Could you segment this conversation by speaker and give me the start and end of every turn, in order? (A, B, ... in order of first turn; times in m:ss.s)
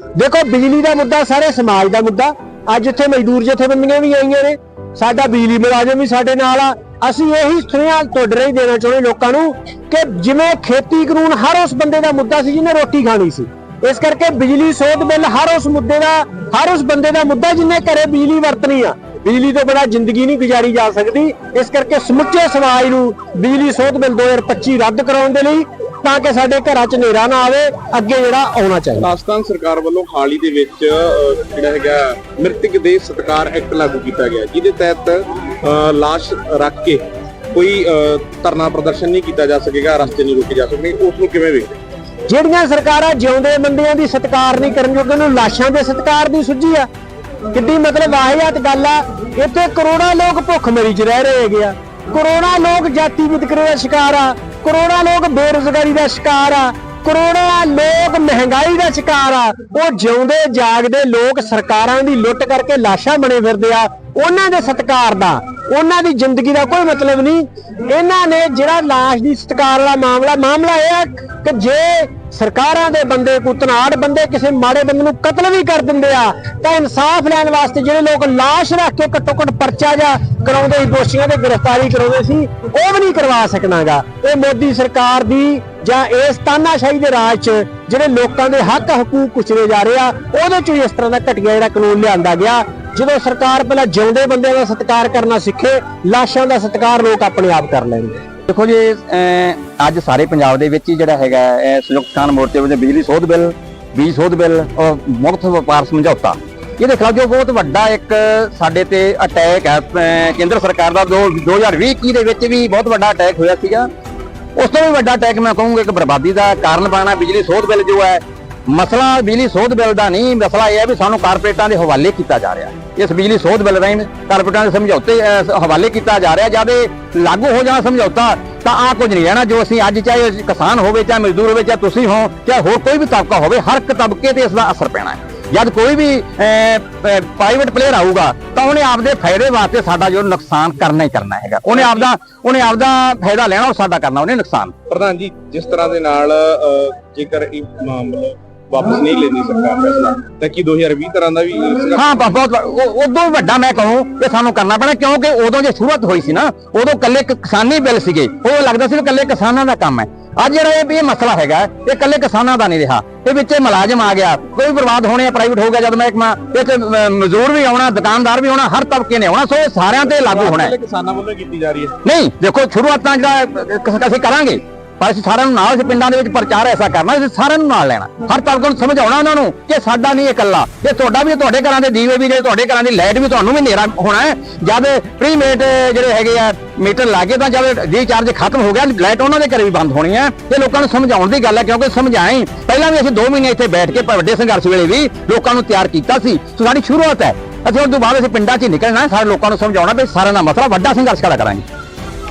0:00.2-0:29.1 A
0:29.0-0:41.7 B
0:42.3-0:46.9 A
0:47.5-1:38.2 A
1:38.5-1:53.9 C
1:54.6-2:24.7 C
2:21.8-2:22.1 B
2:24.9-2:32.2 B
2:32.0-2:50.7 C
2:50.0-2:52.0 B
2:52.0-3:21.6 C